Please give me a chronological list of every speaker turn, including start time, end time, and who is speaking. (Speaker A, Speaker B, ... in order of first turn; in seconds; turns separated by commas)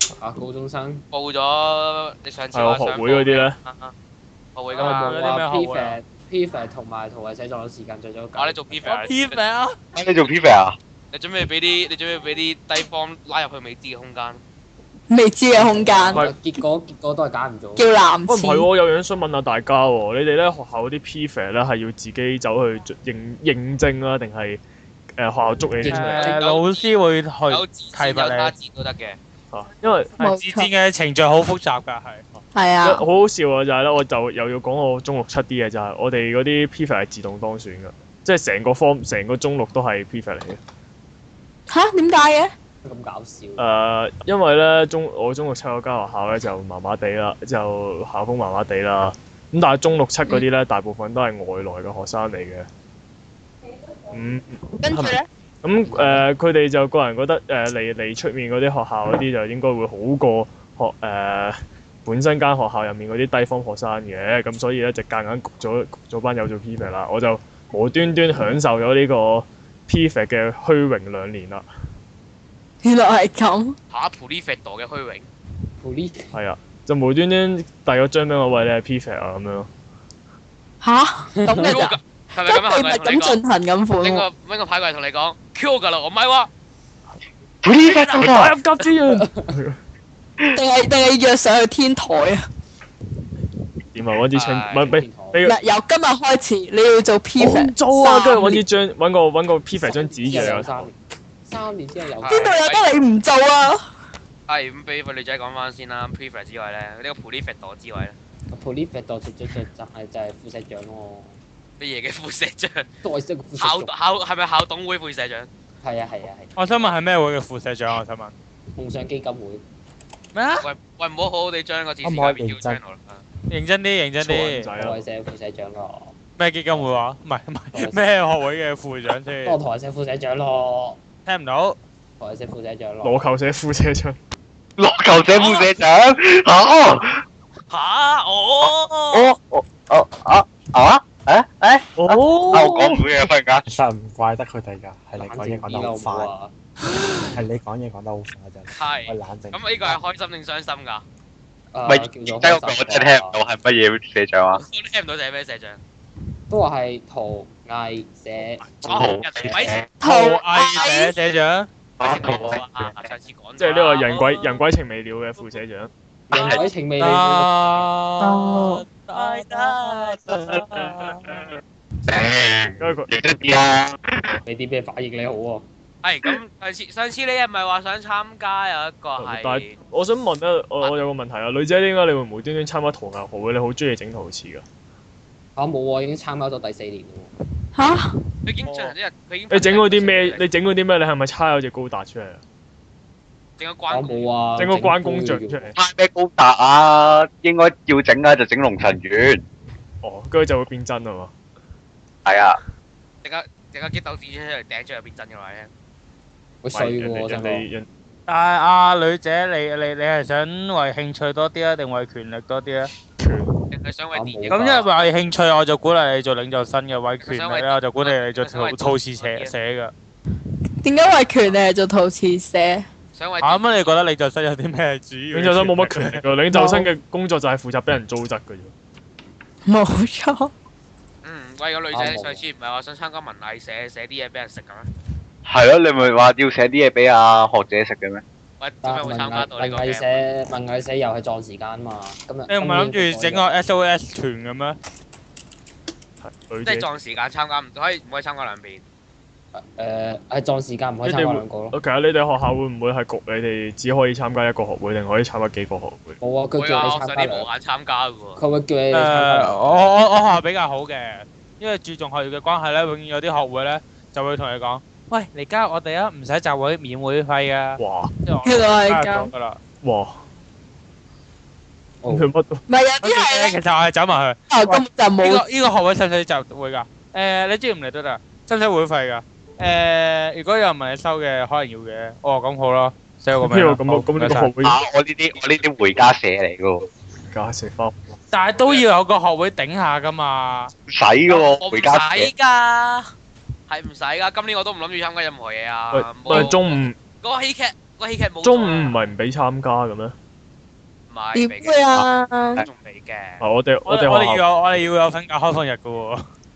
Speaker A: 0.2-1.0, Speaker B: 1.1-3.9, Speaker C: 2.5-3.6, Speaker B: 4.5-5.1, Speaker A: 4.7-9.1, Speaker D: 4.8-6.0, Speaker B: 8.4-9.4, Speaker D: 8.8-9.8, Speaker E: 9.9-10.8, Speaker B: 10.2-10.5, Speaker B: 11.1-14.4, Speaker F: 15.1-16.3, Speaker A: 15.5-17.9, Speaker F: 17.8-18.7, Speaker C: 18.3-24.6, Speaker C: 25.2-26.2, Speaker A: 25.8-26.4, Speaker D: 25.9-28.5, Speaker B: 26.2-26.9, Speaker B: 27.5-29.2, Speaker C: 29.5-30.1, Speaker D: 30.2-32.2, Speaker F: 30.2-30.7, Speaker F: 32.5-33.0, Speaker C: 32.8-40.6, Speaker F: 41.7-42.5, Speaker A: 42.8-43.7, Speaker C: 43.6-52.7, Speaker C: 54.1-71.7, Speaker F: 54.8-55.3, Speaker A: 55.9-56.2, Speaker F: 72.8-73.8, Speaker B: 73.9-75.3, Speaker A: 75.8-76.3, Speaker C: 76.3-79.7, Speaker F: 80.8-84.2, Speaker A: 81.3-81.8, Speaker B: 81.6-83.4, Speaker B: 84.0-86.5, Speaker E: 87.6-88.6, Speaker B: 87.9-88.2, Speaker C: 88.1-89.8, Speaker A: 89.1-89.5, Speaker F: 90.5-92.4, Speaker C: 93.9-95.6, Speaker B: 94.3-94.9, Speaker A: 94.8-95.4, Speaker F: 95.4-98.6, Speaker C: 97.4-100.9, Speaker A: 99.8-102.6, Speaker B: 102.2-102.9, Speaker F: 102.3-103.8, Speaker B: 104.5-108.2, Speaker A: 108.5-111.4, Speaker B: 111.8-112.9, Speaker A: 113.0-113.9, Speaker B: 113.6-115.5, Speaker A: 115.8-116.5, Speaker D: 116.6-118.3, Speaker A: 118.8-119.6, Speaker D: 120.3-120.7, Speaker B: 120.6-123.2, Speaker G: 122.0-122.8, Speaker D: 123.5-124.7, Speaker C: 124.2-125.0, Speaker A: 124.8-126.1, Speaker D: 126.4-129.6, Speaker A: 126.7-127.0, Speaker A: 127.7-128.0, Speaker A: 129.4-131.0, Speaker D: 131.2-131.8, Speaker A: 132.2-133.2, Speaker C: 133.0-134.2, Speaker E: 134.8-137.2, Speaker B: 135.3-135.8, Speaker B: 137.7-139.3, Speaker E: 138.6-143.6, Speaker C: 142.0-143.1, Speaker G: 143.7-146.3, Speaker A: 145.2-146.5, Speaker G: 147.3-150.0, Speaker B: 148.7-151.0, Speaker A: 151.7-153.4, Speaker E: 151.9-154.6, Speaker B: 154.5-155.8, Speaker A: 156.5-159.7, Speaker E: 158.8-159.9, Speaker B: 158.8-159.8, Speaker F: 160.0-161.1, Speaker D: 160.0-161.7, Speaker E: 162.0-163.1, Speaker B: 162.0-164.6, Speaker C: 163.6-165.9, Speaker A: 166.3-167.9, Speaker D: 167.0-171.4, Speaker F: 168.2-168.8, Speaker B: 169.2-169.8, Speaker E: 172.1-174.4, Speaker C: 172.8-173.1, Speaker A: 174.4-175.7, Speaker B: 176.0-179.7, Speaker C: 179.2-184.6, Speaker A: 185.6-187.3, Speaker F: 187.7-188.2, Speaker B: 188.4-190.4, Speaker C: 189.5-192.4, Speaker B: 193.6-194.3, Speaker A: 193.9-195.7, Speaker C: 194.6-195.7, Speaker E: 195.8-199.4, Speaker C: 200.0-201.3, Speaker E: 202.2-202.6, Speaker B: 203.2-205.7, Speaker A: 206.6-207.7, Speaker C: 206.7-207.9, Speaker D: 208.3-212.9, Speaker C: 213.2-213.5, Speaker B: 213.7-214.9, Speaker A: 214.1-214.9, Speaker D: 214.5-219.9, Speaker B: 217.2-219.5, Speaker F: 220.8-222.9, Speaker B: 223.1-223.8, Speaker D: 223.4-226.2, Speaker C: 225.3-228.7, Speaker F: 226.5-226.9, Speaker F: 229.7-230.5, Speaker B: 231.2-234.9, Speaker A: 231.9-232.5, Speaker E: 235.5-238.2, Speaker B: 238.6-240.2, Speaker A: 238.8-243.5, Speaker D: 242.5-244.8, Speaker C: 246.2-246.9, Speaker B: 246.6-248.8, Speaker A: 249.6-251.8, Speaker C: 251.1-256.2, Speaker A: 256.2-257.5, Speaker B: 256.6-258.4, Speaker A: 258.4-259.9, Speaker D: 258.9-269.6, Speaker C: 267.8-268.1, Speaker F: 268.4-269.3, Speaker C: 269.8-270.2, Speaker A: 272.0-272.3, Speaker C: 272.1-272.6, Speaker F: 272.7-273.6, Speaker D: 273.0-284.5, Speaker F: 274.5-275.4, Speaker C: 283.4-284.8, Speaker E: 284.6-286.9, Speaker C: 287.3-288.1, Speaker D: 288.3-290.7, Speaker B: 288.6-288.9, Speaker E: 290.9-292.3, Speaker B: 291.3-293.1, Speaker B: 293.7-298.9, Speaker C: 295.9-296.9, Speaker C: 298.4-300.1, Speaker B: 301.1-301.9, Speaker F: 301.4-302.6, Speaker B: 302.6-303.4, Speaker C: 303.4-304.8, Speaker D: 303.9-306.2